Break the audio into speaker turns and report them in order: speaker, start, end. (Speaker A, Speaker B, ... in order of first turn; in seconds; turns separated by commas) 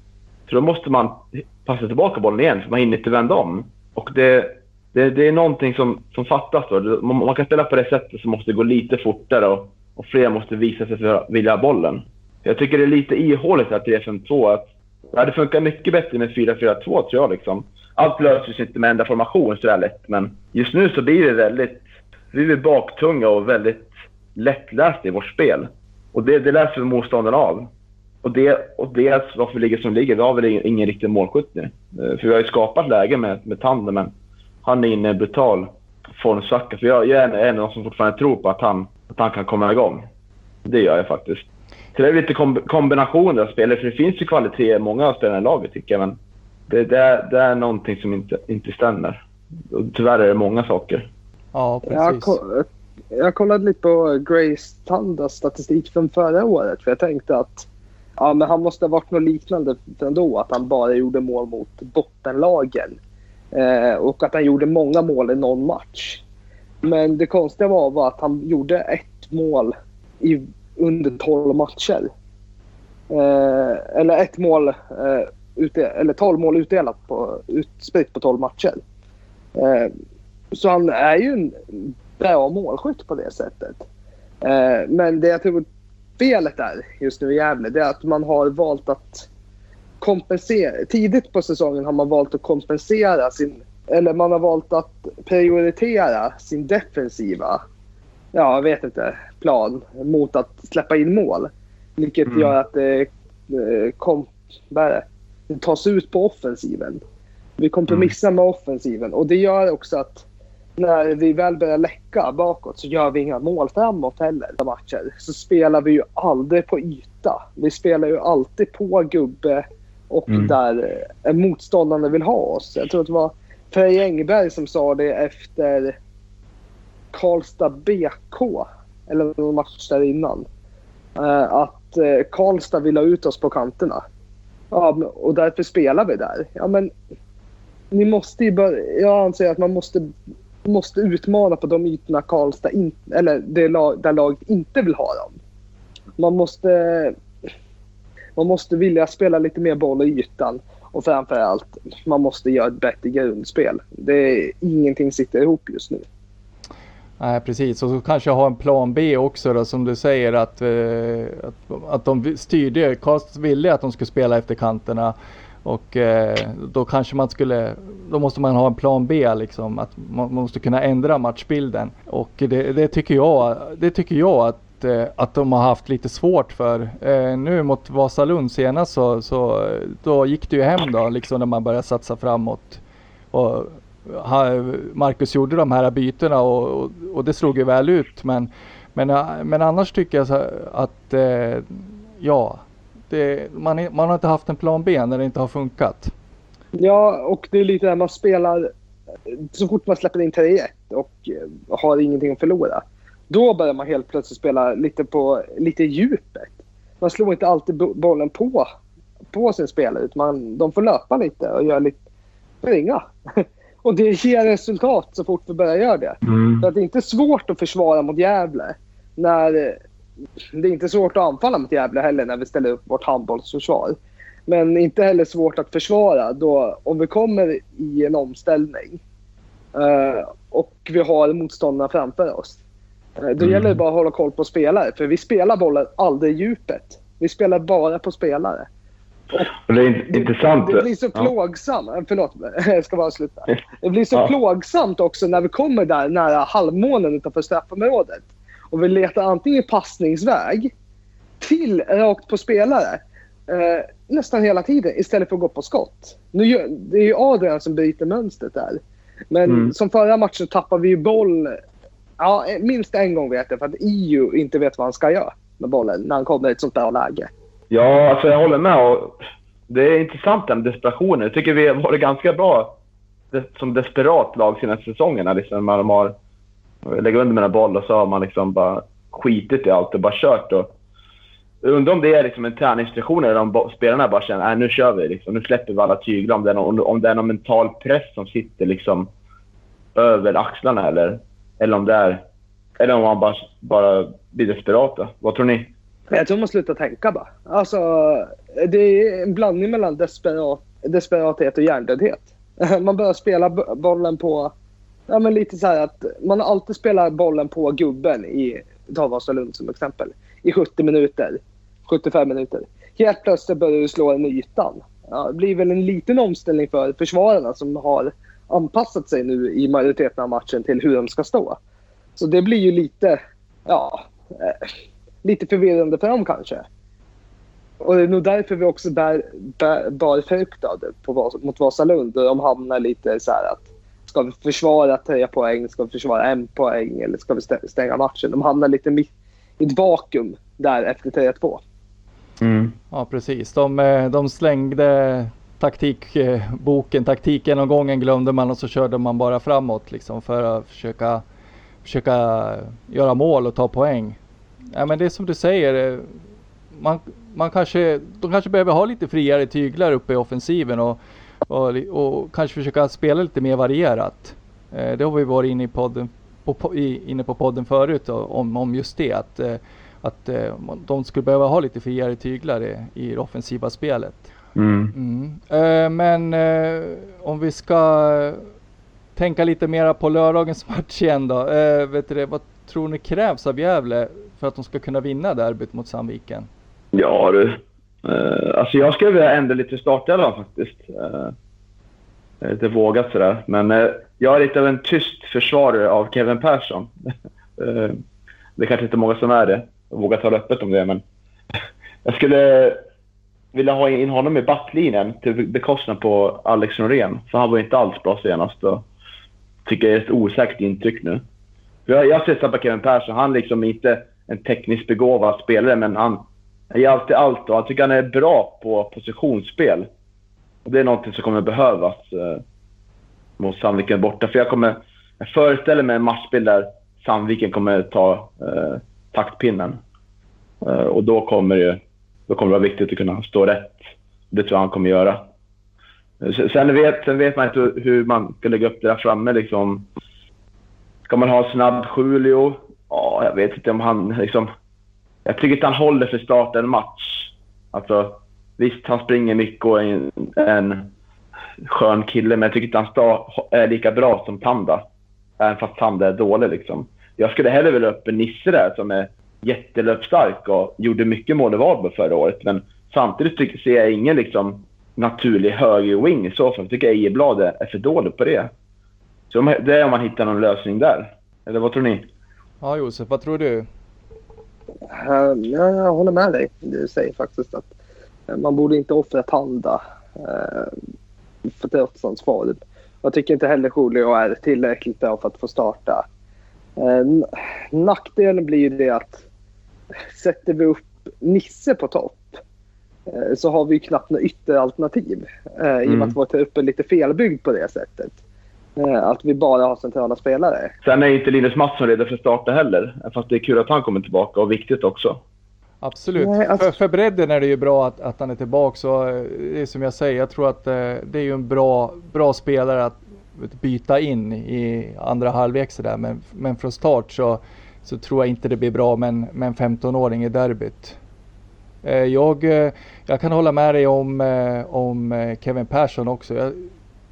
Speaker A: 0.5-27.7, Speaker A: 28.2-34.1, Speaker A: 34.6-40.0, Speaker A: 40.6-46.2, Speaker A: 46.7-51.1, Speaker B: 51.5-52.4, Speaker C: 51.9-57.6, Speaker C: 58.2-63.0, Speaker C: 63.5-66.2, Speaker C: 66.8-72.1, Speaker C: 73.1-78.8, Speaker C: 79.5-79.9, Speaker C: 80.5-83.8, Speaker C: 84.4-85.7, Speaker C: 86.2-89.3, Speaker C: 90.0-97.6, Speaker C: 98.3-107.0, Speaker A: 102.2-102.5, Speaker C: 107.6-110.2, Speaker C: 110.8-125.9, Speaker C: 127.1-130.4, Speaker C: 131.2-134.0, Speaker C: 134.7-136.9, Speaker C: 137.9-140.1, Speaker C: 140.7-145.3, Speaker C: 146.2-147.2, Speaker C: 148.4-156.0, Speaker B: 157.2-182.8, Speaker B: 183.3-196.1, Speaker C: 196.8-198.7, Speaker C: 199.4-208.7, Speaker C: 209.3-212.0, Speaker C: 212.6-219.8, Speaker A: 216.2-216.7, Speaker C: 220.5-229.0, Speaker C: 229.7-232.6, Speaker C: 233.2-238.7, Speaker A: 233.4-233.8, Speaker A: 239.7-241.3, Speaker C: 240.1-250.7, Speaker C: 251.4-258.8, Speaker C: 259.3-261.6, Speaker A: 259.5-259.7, Speaker C: 262.2-267.3, Speaker A: 267.7-269.1, Speaker A: 269.7-272.8, Speaker A: 273.3-276.1, Speaker A: 276.8-280.7, Speaker A: 281.6-289.1, Speaker A: 289.9-292.2, Speaker A: 292.8-295.7, Speaker C: 296.1-304.5, Speaker C: 305.1-321.6, Speaker C: 322.2-324.6, Speaker C: 325.2-326.6, Speaker C: 327.8-339.1, Speaker C: 339.6-341.6, Speaker A: 342.4-342.8, Speaker B: 342.9-351.2, Speaker B: 351.8-354.2, Speaker B: 354.7-356.2, Speaker B: 356.7-374.2, Speaker A: 374.6-374.9, Speaker B: 374.9-378.4, Speaker B: 379.1-386.5, Speaker A: 386.9-391.3, Speaker A: 392.4-396.9, Speaker A: 397.6-398.0, Speaker A: 398.6-401.0, Speaker A: 402.0-402.8, Speaker A: 403.5-408.8, Speaker A: 409.6-411.2, Speaker A: 411.9-419.9, Speaker A: 420.6-422.4, Speaker A: 423.4-429.8, Speaker A: 430.6-433.8, Speaker A: 434.3-435.2, Speaker A: 436.2-439.9, Speaker A: 441.1-444.5, Speaker A: 445.2-450.9, Speaker A: 451.6-454.8, Speaker A: 455.4-468.5, Speaker A: 469.3-472.1, Speaker B: 472.6-473.7, Speaker C: 474.9-477.7, Speaker C: 478.3-480.7, Speaker C: 481.5-486.0, Speaker C: 486.8-489.2, Speaker C: 490.1-492.4, Speaker C: 493.1-498.1, Speaker A: 495.8-496.1, Speaker C: 498.8-500.7, Speaker A: 500.8-505.2, Speaker B: 505.8-521.0, Speaker C: 506.2-506.7, Speaker B: 521.8-526.7